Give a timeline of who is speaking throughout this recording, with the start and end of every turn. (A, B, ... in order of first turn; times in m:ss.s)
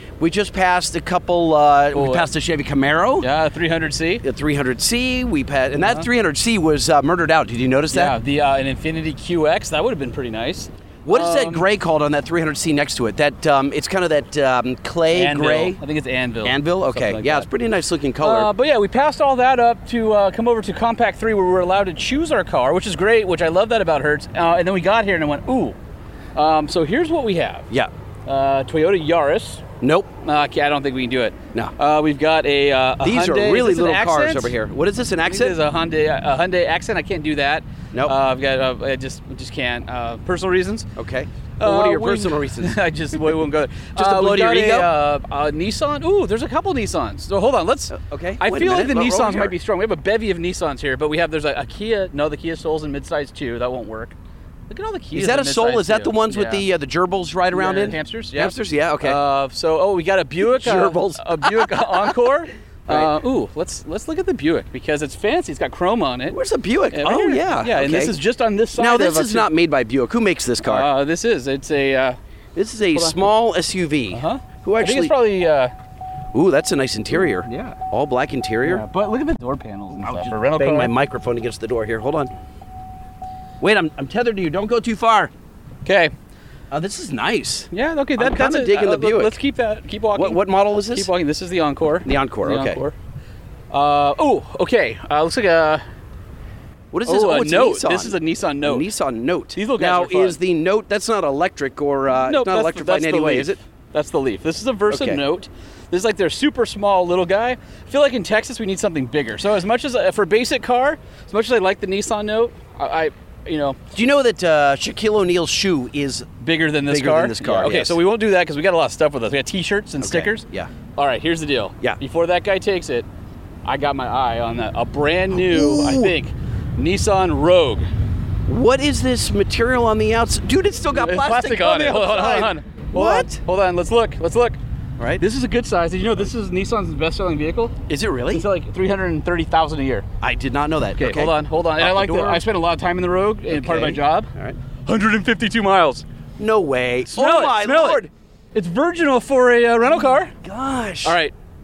0:00.2-0:03.3 A
0:01.9-0:02.3 B
0:03.2-0:04.2 B
0:04.2-0:08.2 A
0:07.9-0:11.6 B
0:11.0-0:15.8 A
0:15.1-0:17.5 B
0:16.4-0:18.5 A
0:18.2-0:25.8 B
0:26.3-0:27.7 B
0:28.2-0:29.6 B
0:29.8-0:30.1 A
0:30.2-0:34.5 B
0:33.0-0:35.6 A
0:35.2-0:40.9 B
0:41.0-0:42.8 A
0:41.6-0:54.1 B
0:44.0-0:44.9 A
0:47.9-0:49.5 A
0:54.7-0:56.6 B
0:55.1-0:59.2 A
0:57.5-1:06.4 B
1:00.5-1:01.7 A
1:06.3-1:08.1 A
1:06.9-1:09.5 B
1:08.8-1:10.8 A
1:10.6-1:12.2 B
1:12.6-1:15.1 A
1:14.1-1:15.7 B
1:16.3-1:18.8 A
1:17.4-1:17.8 B
1:18.6-1:20.9 B
1:19.9-1:22.3 A
1:23.6-1:25.3 A
1:25.8-1:26.1 B
1:26.7-1:29.3 A
1:27.7-1:32.9 B
1:30.2-1:31.1 A
1:32.0-1:32.8 A
1:33.7-1:35.8 B
1:36.9-1:43.6 A
1:37.1-1:38.8 B
1:39.5-1:40.4 B
1:42.3-1:53.8 B
1:44.9-1:45.2 A
1:53.9-1:56.3 A
1:56.4-2:00.4 B
1:56.9-1:57.9 A
2:00.0-2:00.7 A
2:01.0-2:03.0 B
2:03.6-2:07.8 B
2:05.3-2:06.1 A
2:08.5-2:13.4 A
2:11.0-2:14.6 B
2:15.2-2:17.7 B
2:17.9-2:18.4 A
2:18.3-2:20.0 B
2:20.2-2:22.4 A
2:21.0-2:24.3 B
2:23.5-2:24.6 A
2:24.8-2:26.0 B
2:26.4-2:28.1 A
2:27.1-2:30.3 B
2:30.4-2:31.2 A
2:31.0-2:31.3 B